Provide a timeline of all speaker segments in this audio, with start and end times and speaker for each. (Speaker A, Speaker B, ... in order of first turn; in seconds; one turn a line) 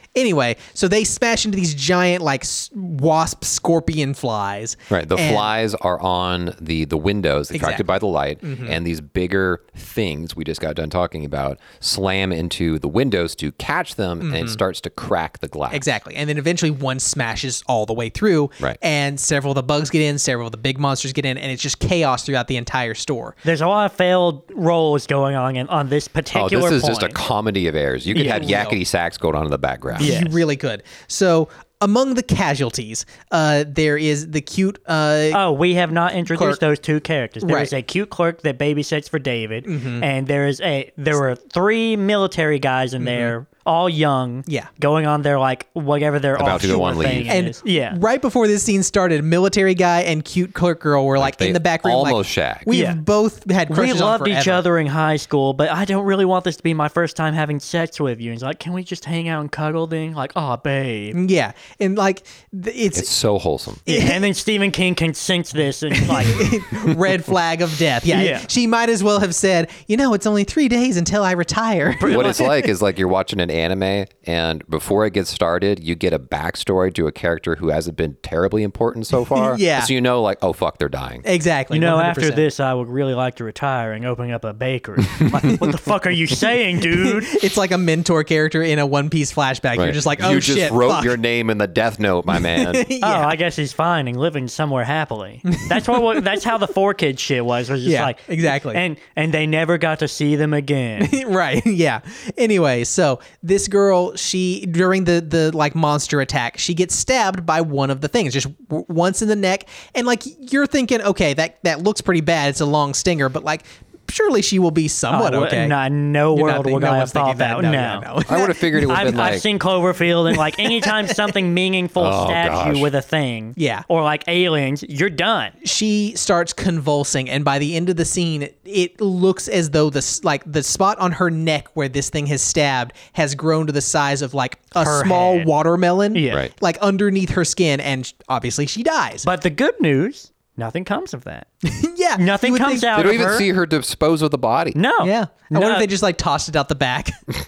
Speaker A: 0.1-5.5
Speaker B: 4.9-15.8
Speaker A: 7.5-7.8
Speaker A: 8.4-8.8
Speaker A: 14.2-14.6
Speaker A: 15.7-23.4
Speaker C: 23.4-27.2
Speaker B: 26.3-30.1
Speaker C: 28.1-28.5
Speaker A: 28.2-28.8
Speaker A: 29.9-35.4
Speaker C: 30.0-30.4
Speaker C: 35.3-48.0
Speaker A: 36.3-36.6
Speaker A: 37.4-37.7
Speaker A: 39.6-40.1
Speaker A: 43.0-43.3
Speaker B: 46.4-47.3
Speaker A: 46.5-54.6
Speaker B: 51.2-52.7
Speaker C: 52.7-53.0
Speaker C: 53.7-61.2
Speaker A: 61.1-63.1
Speaker B: 62.9-63.8
Speaker A: 63.9-64.3
Speaker C: 63.9-66.5
Speaker A: 65.9-72.5
Speaker C: 68.1-68.5
Speaker C: 72.0-72.5
Speaker B: 72.1-81.2
Speaker A: 79.3-79.9
Speaker A: 81.2-82.5
Speaker C: 81.7-87.4
Speaker A: 86.9-91.2
Speaker B: 89.8-92.9
Speaker A: 92.3-93.4
Speaker C: 93.0-101.2
Speaker A: 95.5-96.4
Speaker A: 97.8-98.8
Speaker A: 101.0-115.8
Speaker C: 115.1-118.1
Speaker A: 116.3-119.2
Speaker B: 118.3-119.5
Speaker C: 118.8-125.5
Speaker A: 120.3-121.2
Speaker B: 122.0-122.9
Speaker A: 123.6-123.8
Speaker A: 125.6-139.3
Speaker C: 134.8-135.5
Speaker C: 136.1-136.4
Speaker C: 139.2-141.5
Speaker A: 141.6-143.0
Speaker C: 142.2-143.4
Speaker B: 142.9-144.8
Speaker C: 144.7-145.9
Speaker A: 145.0-147.2